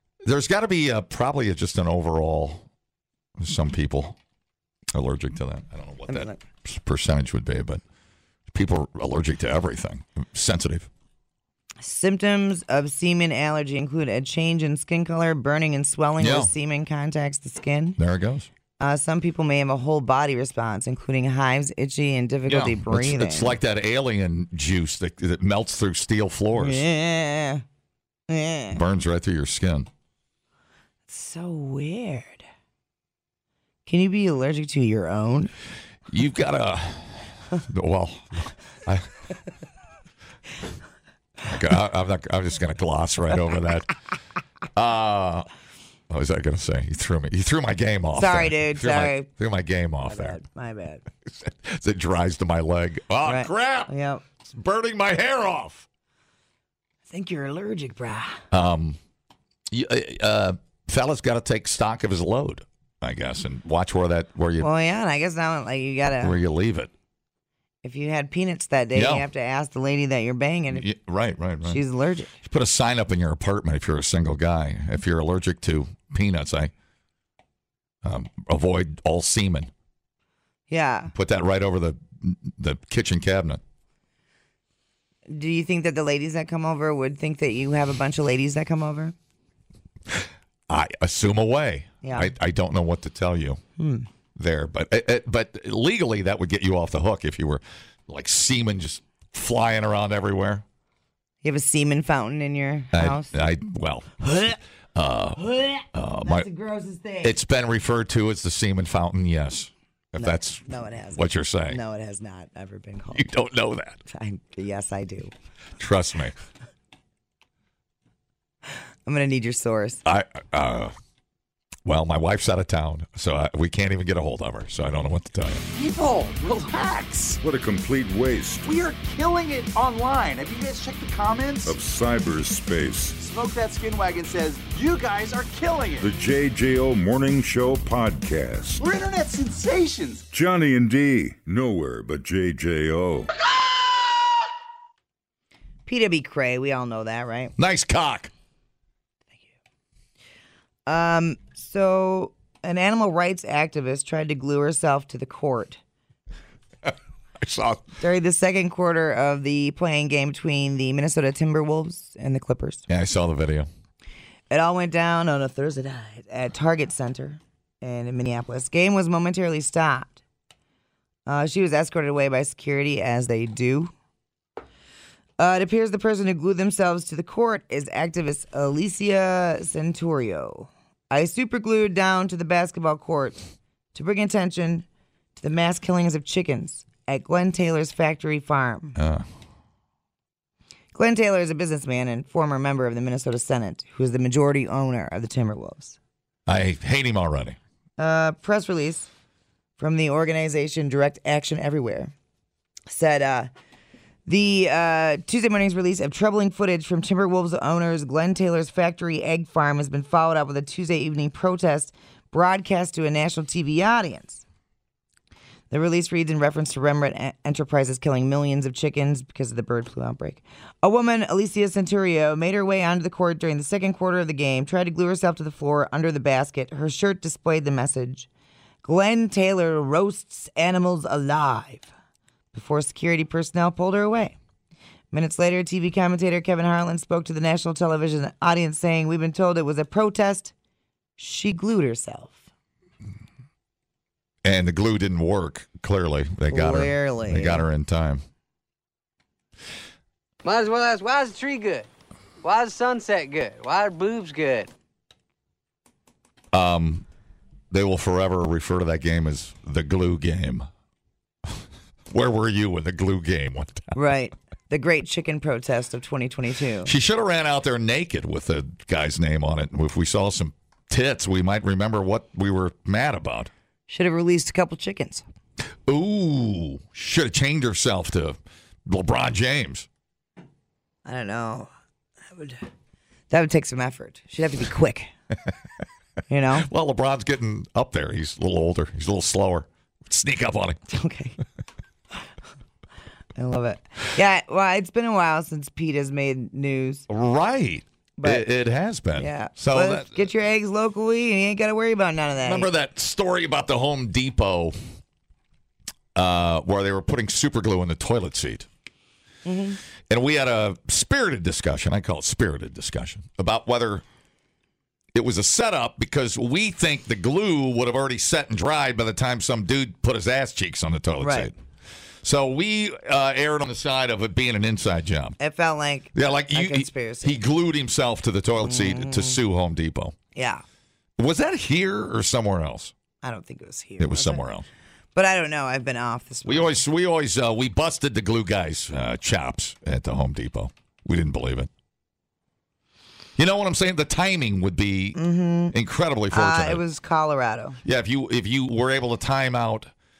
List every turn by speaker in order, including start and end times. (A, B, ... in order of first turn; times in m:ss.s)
0:00.2-0:02.6 A
0:03.4-0:04.2 A
0:04.9-0:07.8 A
0:06.1-0:06.4 B
0:08.5-0:10.9 A
0:11.8-0:18.0 B
0:16.2-0:16.5 A
0:18.0-0:18.5 A
0:18.8-0:23.6 B
0:22.5-0:26.8 A
0:26.6-0:27.6 B
0:28.3-0:28.8 B
0:28.7-0:29.9 A
0:31.1-0:32.4 B
0:33.8-0:35.5 B
0:36.1-0:39.2 A
0:41.4-0:44.0 A
0:44.7-0:45.5 A
0:46.1-0:50.4 A
0:48.1-0:49.3 B
0:50.0-0:51.0 B
0:51.3-0:53.9 A
0:53.2-0:54.2 B
0:54.4-0:55.8 A
0:57.1-0:58.4 B
0:58.5-0:59.0 A
0:59.7-1:04.7 A
1:04.6-1:06.4 B
1:06.2-1:06.9 A
1:07.8-1:10.8 B
1:08.9-1:09.3 A
1:10.7-1:11.8 A
1:11.6-1:12.4 B
1:12.4-1:16.7 A
1:18.0-1:19.7 A
1:20.7-1:21.1 B
1:21.1-1:23.6 A
1:25.3-1:29.1 B
1:30.1-1:33.6 A
1:32.0-1:32.3 B
1:33.8-1:34.1 B
1:34.4-1:40.6 A
1:41.4-1:43.4 B
1:42.9-1:46.5 A
1:45.4-1:47.4 B
1:47.2-1:51.8 A
1:50.2-1:53.3 B
1:53.1-1:54.0 A
1:54.1-1:55.3 B
1:55.8-1:56.3 A
1:59.0-2:00.0 B
2:00.0-2:00.9 A
2:01.8-2:05.6 A
2:05.7-2:07.4 C
2:07.4-2:08.7 D
2:08.6-2:11.8 C
2:11.6-2:13.2 D
2:13.2-2:16.1 C
2:16.0-2:18.8 D
2:18.8-2:20.2 C
2:20.3-2:23.3 D
2:25.8-2:27.5 B
2:27.6-2:28.3 A
2:30.9-2:35.8 B
2:36.8-2:37.8 A
2:38.0-2:42.8 B
2:42.9-2:43.7 A
2:44.5-2:50.2 B
2:51.3-2:53.9 B
2:55.4-3:03.4 B
3:03.9-3:04.8 B
3:05.4-3:09.0 B
3:09.0-3:09.2 A
3:10.9-3:16.0 B
3:16.5-3:17.6 A
3:18.0-3:19.1 B
3:19.8-3:22.1 B
3:22.9-3:23.5 B
3:24.2-3:34.4 B
3:35.7-3:48.3 B
3:48.8-3:51.9 B
3:52.5-3:54.4 B
3:55.1-4:00.5 B
4:01.2-4:02.4 B
4:04.4-4:08.2 A
4:06.5-4:07.6 B
4:10.4-4:11.9 E
4:12.4-4:14.7 E
4:16.5-4:17.0 A
4:17.7-4:20.7 A
4:22.1-4:24.0 A
4:23.9-4:26.9 B
4:26.8-4:33.5 A
4:33.9-4:35.2 B
4:35.8-4:39.9 A
4:41.0-4:41.7 B
4:42.3-4:42.6 B
4:43.3-4:45.1 B
4:46.3-4:46.7 B
4:46.5-4:50.8 A
4:50.9-4:51.4 B
4:53.4-4:57.1 B
4:57.1-5:00.2 A
4:58.2-4:58.5 B
4:59.2-5:02.7 B
5:02.4-5:04.8 A
5:06.1-5:08.7 A
5:09.4-5:09.8 B
5:10.1-5:14.0 A
5:15.1-5:21.5 A
5:21.2-5:21.5 B
5:22.2-5:25.4 A
5:25.4-5:27.4 B
5:26.1-5:30.1 A
5:28.6-5:29.4 B
5:30.3-5:30.6 B
5:31.2-5:32.9 A
5:33.2-5:34.4 B
5:34.0-5:34.6 A
5:35.1-5:36.8 B
5:36.4-5:41.7 A
5:43.4-5:45.2 A
5:45.2-5:45.7 B
5:45.7-5:46.8 A
5:46.3-5:47.8 B
5:47.8-5:49.9 A